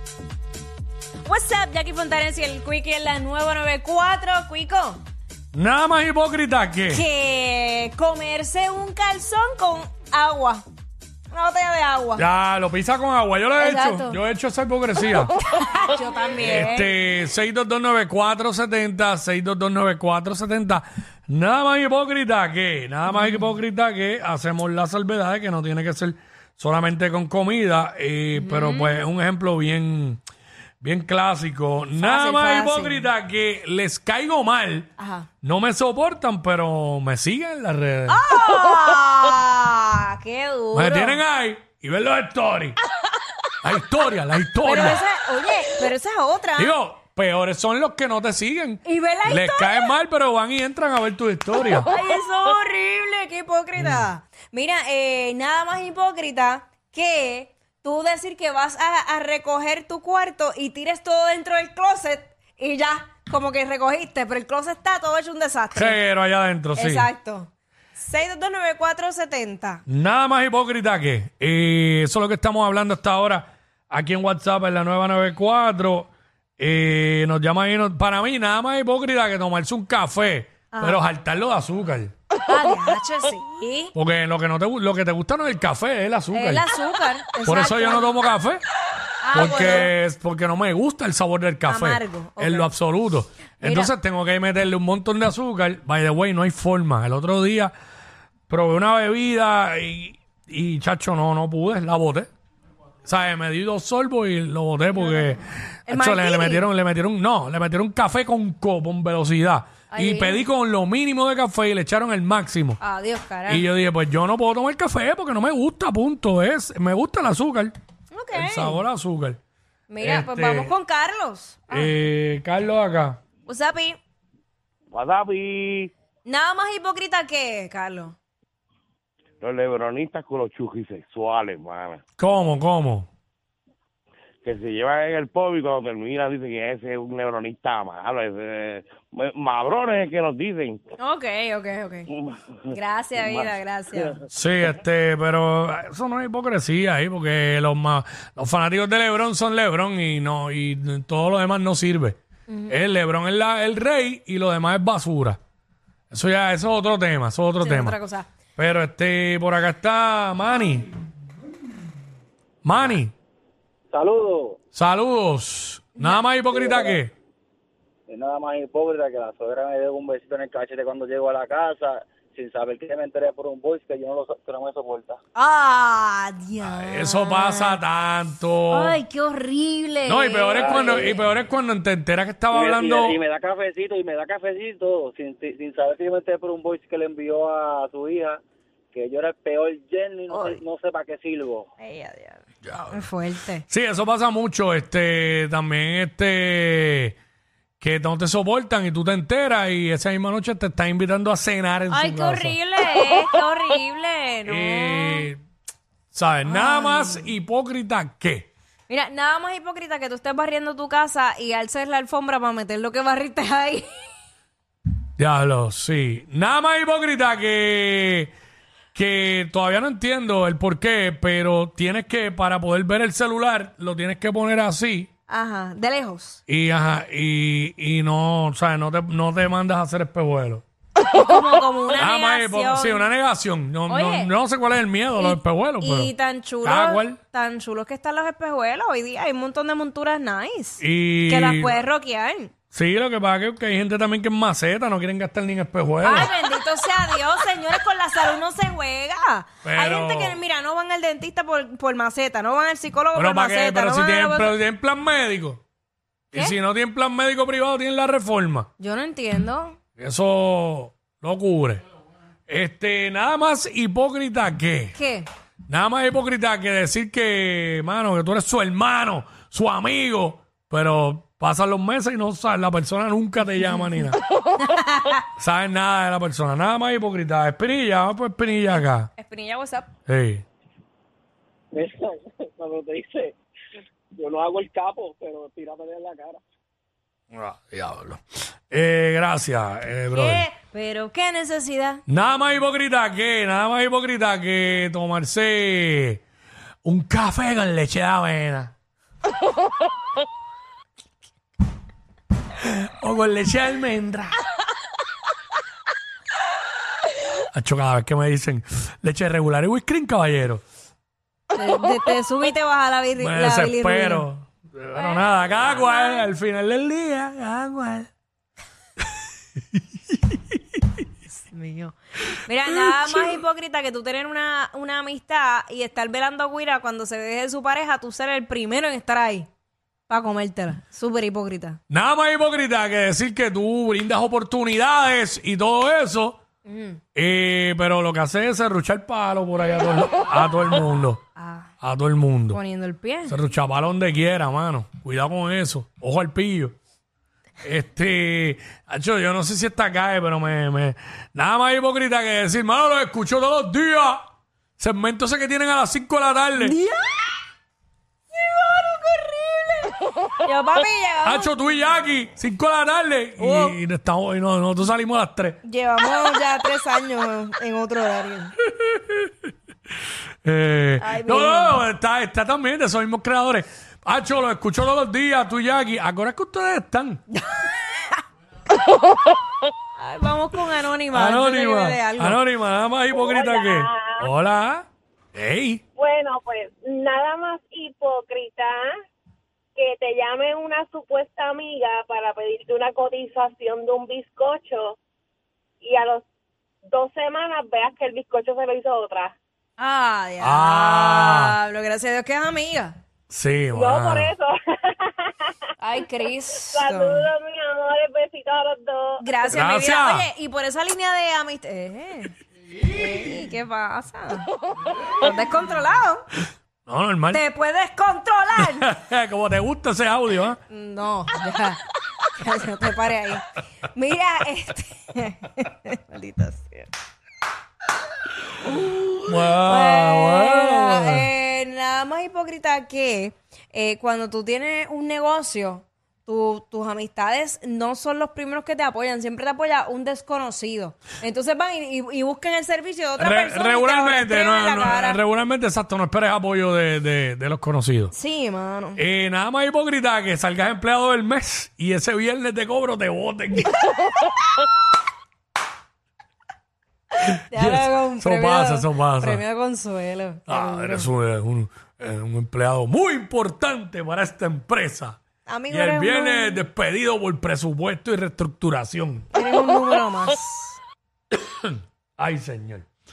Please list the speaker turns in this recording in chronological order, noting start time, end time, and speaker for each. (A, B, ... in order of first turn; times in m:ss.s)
0:01.2-0:05.0 A
0:05.5-0:07.0 B
0:06.9-0:10.6 A
0:11.3-0:12.2 A
0:12.2-0:15.3 B
0:13.6-0:14.2 A
0:15.4-0:16.9 A
0:16.4-0:30.2 B
0:23.1-0:23.4 A
0:28.3-0:29.0 A
0:30.8-0:34.9 B
0:32.0-0:33.1 A
0:35.0-0:35.3 A
0:35.4-0:38.2 B
0:38.1-0:41.2 A
0:40.7-0:42.8 B
0:43.6-0:45.0 B
0:44.6-0:46.7 A
0:46.6-0:51.9 B
0:48.8-0:49.9 A
0:51.8-1:06.0 A
0:53.8-0:54.0 B
1:05.7-1:07.1 B
1:06.7-1:09.8 A
1:09.9-1:22.1 B
1:20.7-1:21.0 A
1:22.4-1:23.9 A
1:23.9-1:26.6 B
1:26.3-1:28.2 A
1:27.4-1:28.6 B
1:29.2-1:29.9 A
1:29.3-1:37.7 B
1:31.6-1:32.7 A
1:33.6-1:33.9 A
1:38.5-1:42.3 B
1:43.0-1:52.8 B
1:44.9-1:46.6 A
1:49.9-1:50.4 A
1:52.8-1:53.6 A
1:53.5-1:57.8 B
1:58.1-1:58.8 A
1:58.3-1:59.4 B
1:59.9-2:01.9 A
2:00.0-2:00.7 B
2:01.7-2:03.2 B
2:03.4-2:04.0 A
2:04.9-2:05.9 C
2:06.2-2:08.2 A
2:09.4-2:12.0 C
2:12.2-2:13.1 B
2:14.4-2:20.8 C
2:21.0-2:22.1 A
2:22.7-2:24.1 A
2:23.2-2:23.4 C
2:24.3-2:35.4 B
2:32.5-2:32.8 A
2:36.1-2:38.0 B
2:37.6-2:38.3 A
2:38.6-2:40.9 B
2:42.6-2:43.1 B
2:43.9-2:44.6 D
2:44.7-2:47.1 B
2:46.0-2:46.2 A
2:46.5-2:47.0 D
2:48.1-2:55.2 D
2:55.3-2:57.8 A
2:56.6-2:59.0 B
2:58.7-3:01.2 A
3:00.0-3:03.2 B
3:00.5-3:01.1 D
3:02.5-3:08.4 D
3:08.9-3:11.7 D
3:10.3-3:10.6 A
3:11.8-3:13.6 A
3:12.6-3:13.0 B
3:13.7-3:17.1 B
3:17.8-3:22.6 B
3:21.9-3:25.3 A
3:24.4-3:25.4 B
3:26.1-3:28.5 B
3:26.4-3:27.3 A
3:28.9-3:34.1 A
3:35.2-3:38.3 B
3:38.9-3:45.1 B
3:45.3-3:46.4 A
3:46.5-3:50.6 B
3:51.0-3:53.1 A
3:52.0-3:56.1 B
3:53.9-3:54.3 A
3:55.2-4:02.5 A
3:56.6-3:57.2 B
4:00.8-4:01.8 B
4:02.7-4:06.3 B
4:06.0-4:14.6 A
4:09.6-4:10.4 B
4:13.1-4:15.6 B
4:16.3-4:18.7 B
4:18.8-4:19.8 A
4:20.0-4:21.8 B
4:22.5-4:25.0 B
4:24.9-4:25.3 A
4:25.7-4:34.2 B
4:34.6-4:35.2 A
4:35.4-4:39.1 B
4:39.2-4:39.9 A
4:40.1-4:40.4 B
4:41.7-4:43.3 D
4:44.1-4:46.4 D
4:47.3-4:50.5 B
4:50.1-4:52.0 A
4:52.1-4:56.2 B
4:56.8-4:58.7 B
5:02.6-5:04.4 B
5:07.5-5:10.6 B
5:11.5-5:14.3 A
5:13.2-5:18.1 B
5:14.9-5:16.3 A
5:21.4-5:29.5 A
5:22.7-5:23.3 B
5:30.1-5:31.8 A
5:31.9-5:36.4 B
5:36.6-5:37.0 A
5:37.1-5:41.2 B
5:41.4-5:41.7 A
5:41.8-5:42.6 B
5:42.5-5:43.4 A
5:43.2-5:46.7 B
5:47.6-5:54.2 B
5:54.8-5:56.8 B
5:56.6-5:57.3 A
5:58.3-6:01.5 A
6:01.2-6:05.6 B
6:03.4-6:03.8 A
6:05.6-6:08.6 A
6:08.7-6:09.3 B
6:10.4-6:17.2 B
6:11.0-6:11.8 A
6:17.3-6:17.7 A
6:20.0-6:22.4 A
6:21.1-6:25.8 B
6:23.1-6:24.3 E
6:26.0-6:28.9 E
6:29.8-6:35.0 E
6:35.8-6:36.2 E
6:36.9-6:39.3 E
6:39.8-6:43.0 A
6:40.4-6:41.5 B
6:43.3-6:44.3 B
6:43.7-6:45.5 E
6:45.8-6:47.2 A
6:46.7-6:49.4 E
6:49.2-6:54.5 A
6:49.5-6:50.3 B
6:55.1-6:56.2 A
6:56.8-6:57.4 B
6:57.3-6:58.9 A
6:58.6-7:00.6 B
7:00.7-7:06.9 A
7:08.9-7:25.2 A
7:09.2-7:11.3 B
7:23.2-7:28.1 B
7:28.1-7:29.0 A
7:29.0-7:33.9 B
7:37.3-7:41.1 A
7:37.5-7:39.4 B
7:40.5-7:49.3 B
7:45.4-7:46.6 A
7:49.3-7:50.8 A
7:51.3-7:52.8 B